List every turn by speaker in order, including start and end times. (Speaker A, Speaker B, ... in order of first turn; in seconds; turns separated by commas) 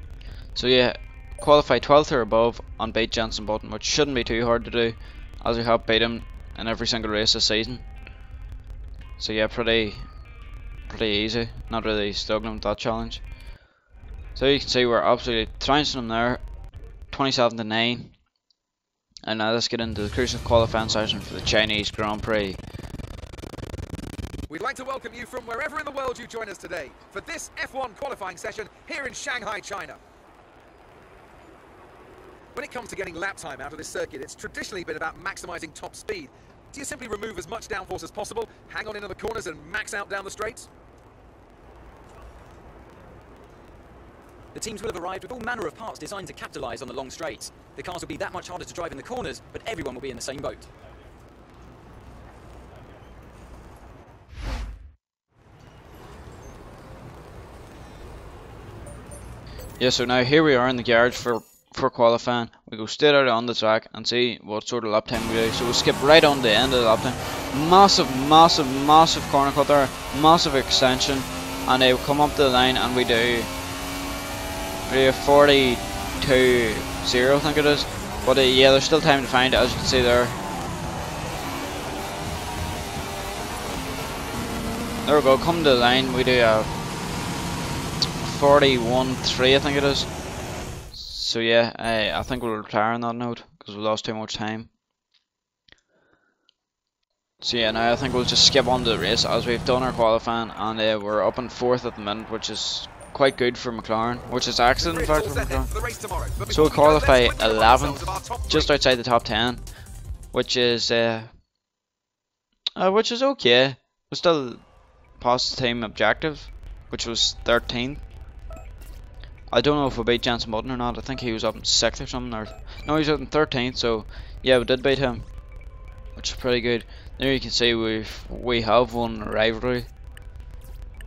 Speaker A: 0.6-7.9, Speaker A: 9.2-10.1, Speaker A: 10.9-13.2, Speaker A: 14.4-16.4, Speaker A: 17.1-18.2, Speaker A: 19.2-22.6, Speaker B: 24.5-30.0, Speaker B: 32.5-40.7, Speaker C: 44.5-50.7, Speaker A: 59.8-73.5, Speaker A: 74.9-80.4, Speaker A: 85.0-86.7, Speaker A: 88.2-90.1, Speaker A: 90.9-94.7, Speaker A: 97.4-105.7, Speaker B: 104.8-108.7, Speaker A: 106.5-109.7, Speaker A: 110.3-111.3, Speaker A: 112.8-114.6, Speaker A: 115.2-118.0, Speaker A: 119.5-125.3, Speaker A: 126.2-129.9